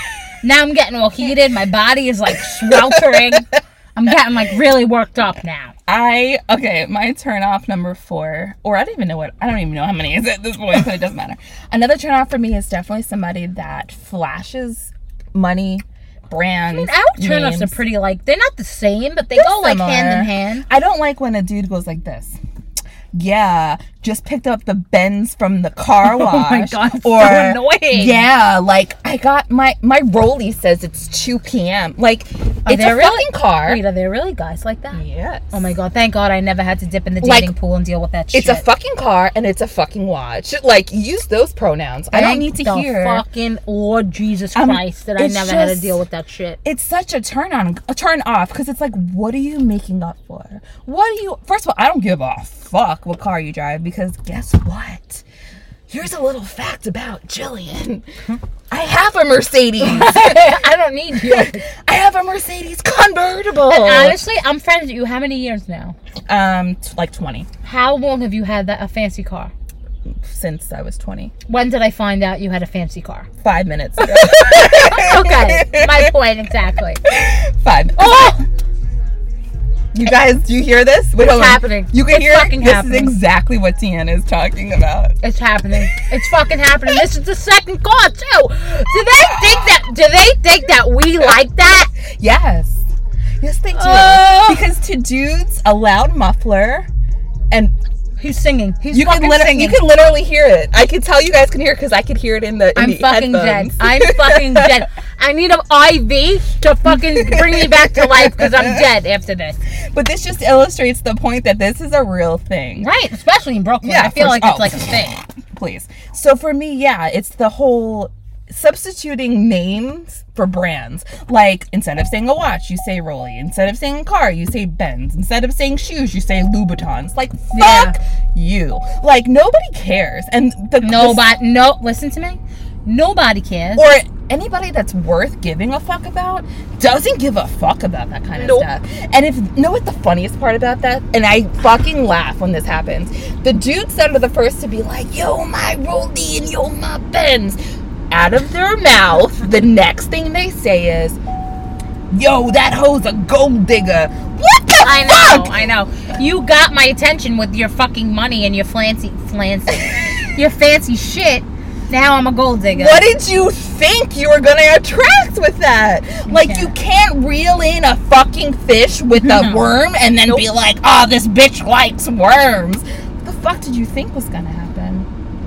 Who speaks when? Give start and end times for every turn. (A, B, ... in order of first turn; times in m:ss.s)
0:00.4-0:05.7 A
0:02.7-0:03.2 B
0:05.9-0:17.8 B
0:16.7-0:20.6 A
0:19.3-0:22.4 B
0:23.1-0:33.8 B
0:26.0-0:28.2 A
0:32.6-0:38.6 A
0:34.9-0:35.6 B
0:37.2-0:37.5 B
0:38.3-0:43.2 B
0:42.1-0:46.6 A
0:44.5-0:46.0 B
0:46.6-0:55.2 B
0:55.9-0:58.0 B
0:58.7-1:00.6 B
0:59.8-1:01.7 A
1:01.1-1:04.2 B
1:03.6-1:06.0 A
1:06.3-1:07.5 B
1:07.6-1:09.5 A
1:10.2-1:11.3 B
1:11.5-1:13.3 A
1:13.4-1:16.1 B
1:14.0-1:17.0 A
1:17.0-1:18.4 B
1:18.0-1:18.4 A
1:19.9-1:25.2 B
1:21.2-1:23.2 A
1:25.2-1:31.9 A
1:29.2-1:29.7 B
1:32.2-1:32.8 B
1:33.4-1:36.9 B
1:33.7-1:34.7 A
1:38.2-1:39.8 A
1:38.9-1:44.8 B
1:42.8-1:49.6 A
1:46.8-1:48.8 B
1:49.9-1:52.9 B
1:52.8-1:55.2 A
1:53.8-2:11.3 B
2:07.5-2:07.9 A
2:10.8-2:13.9 A
2:13.7-2:27.6 B
2:18.4-2:18.7 A
2:28.1-2:31.2 B
2:32.1-2:35.5 B
2:34.8-2:43.1 A
2:42.7-2:55.1 B
2:46.3-2:46.7 A
2:49.2-2:49.6 A